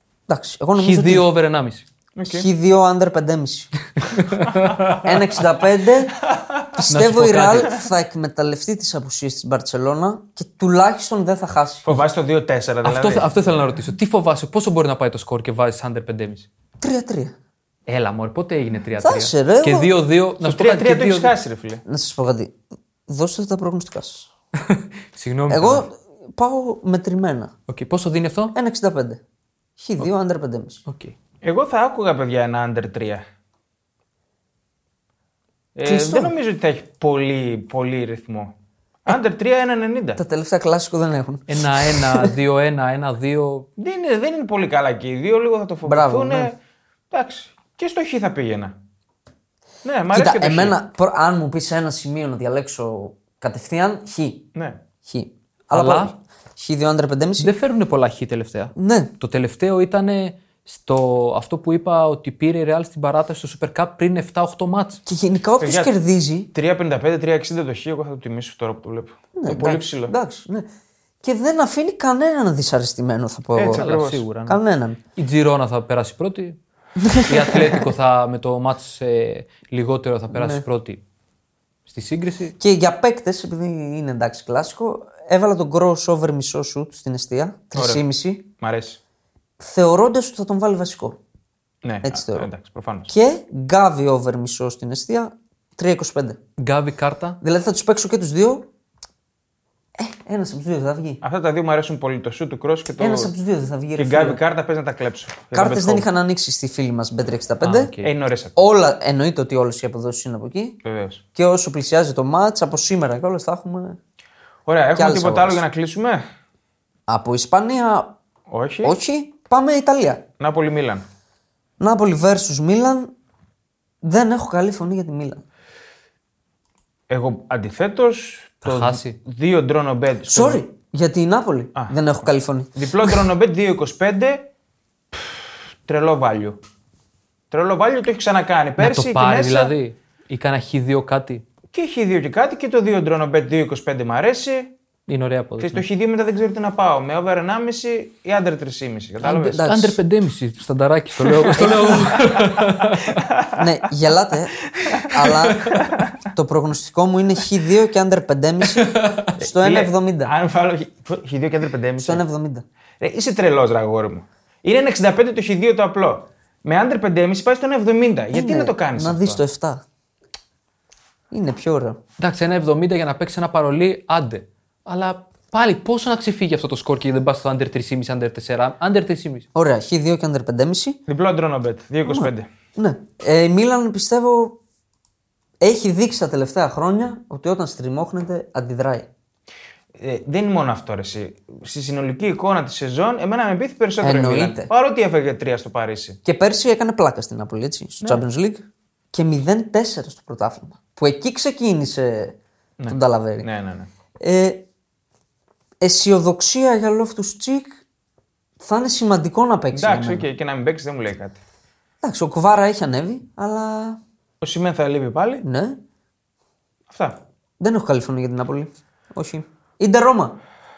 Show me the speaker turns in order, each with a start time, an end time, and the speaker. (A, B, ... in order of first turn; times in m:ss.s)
0:00.3-0:01.2 A
0:00.8-0:01.8 B
0:02.2-0:02.5 C
0:02.3-0:03.7 A
0:04.0-0:05.1 B
0:05.0-0:06.2 A
0:06.3-0:06.7 C
0:06.7-0:11.9 A
0:06.9-0:07.8 B
0:11.8-0:13.5 C
0:12.8-0:16.5 B
0:16.8-0:17.3 A
0:17.9-0:21.3 B
0:19.0-0:19.9 A
0:20.4-0:21.8 C
0:21.8-0:22.5 A
0:23.1-0:24.3 A
0:24.6-0:25.8 B
0:25.5-0:27.5 A
0:27.7-0:28.5 B
0:28.5-0:29.2 A
0:29.8-0:30.8 A
0:30.9-0:31.1 B
0:31.4-0:33.2 C
0:35.8-0:38.5 C
0:35.8-0:36.3 A
0:39.0-0:40.2 C
0:40.2-0:42.3 A
0:41.5-0:43.7 B
0:43.8-0:46.6 C
0:45.8-0:46.5 A
0:47.1-0:48.7 C
0:49.8-0:50.8 C
0:50.1-0:54.4 A
0:55.0-0:57.5 A
0:55.7-0:56.1 B
0:57.4-1:05.0 B
0:58.8-0:59.1 A
1:05.0-1:06.5 A
1:05.6-1:05.9 C
1:06.5-1:10.1 C
1:09.4-1:10.7 A
1:11.2-1:13.9 A
1:13.6-1:14.2 C
1:13.7-1:14.6 B
1:14.4-1:15.0 A
1:15.2-1:16.6 B
1:17.0-1:17.9 A
1:17.1-1:21.0 B
1:20.3-1:20.6 A
1:21.8-1:22.6 B
1:22.6-1:28.4 A
1:27.7-1:28.0 C
1:28.6-1:29.0 C
1:29.6-1:31.2 A
1:31.8-1:33.1 C
1:32.0-1:32.5 A
1:33.1-1:36.4 A
1:36.6-1:37.4 B
1:37.4-1:38.7 A
1:40.0-1:41.2 A
1:41.2-1:43.3 C
1:43.0-1:44.4 A
1:44.0-1:46.0 C
1:45.5-1:47.9 A
1:47.6-1:48.1 B
1:48.0-1:48.5 C
1:48.6-1:50.8 A
1:50.8-1:51.2 C
1:51.3-1:54.0 A
1:54.6-1:56.2 C
1:54.9-1:55.6 A
1:57.1-1:58.2 A
1:58.5-1:59.0 C
1:58.8-2:00.2 A
2:00.4-2:01.0 C
2:01.8-2:03.1 A
2:04.0-2:05.4 A
2:07.1-2:10.6 C
2:08.6-2:09.2 B
2:10.3-2:12.7 A
2:12.8-2:14.5 C
2:15.1-2:16.6 C
2:17.5-2:19.7 C
2:18.8-2:21.4 B
2:21.7-2:24.7 C
2:25.1-2:25.8 B
2:25.6-2:29.7 C
2:29.2-2:30.0 A
2:29.3-2:33.2 B
2:31.4-2:33.7 C
2:31.6-2:32.2 A
2:33.6-2:34.6 A
2:34.7-2:36.2 C
2:35.1-2:40.3 A
2:35.4-2:35.9 B
2:38.6-2:39.3 B
2:39.4-2:42.2 C
2:42.0-2:42.6 A
2:43.0-2:49.4 C
2:48.3-2:49.8 A
2:51.3-2:52.0 A
2:52.2-2:59.5 B
2:59.5-3:01.0 A
3:01.1-3:02.5 C
3:02.0-3:04.6 A
3:05.6-3:09.1 A
3:10.0-3:16.2 C
3:14.0-3:14.7 A
3:16.2-3:22.4 A
3:22.8-3:23.9 C
3:22.9-3:23.5 A
3:24.2-3:24.6 A
3:25.8-3:27.8 A
3:28.6-3:30.3 A
3:29.7-3:31.4 C
3:32.0-3:34.0 A
3:34.4-3:35.4 C
3:35.4-3:35.8 A
3:36.9-3:37.2 C
3:37.6-3:40.4 A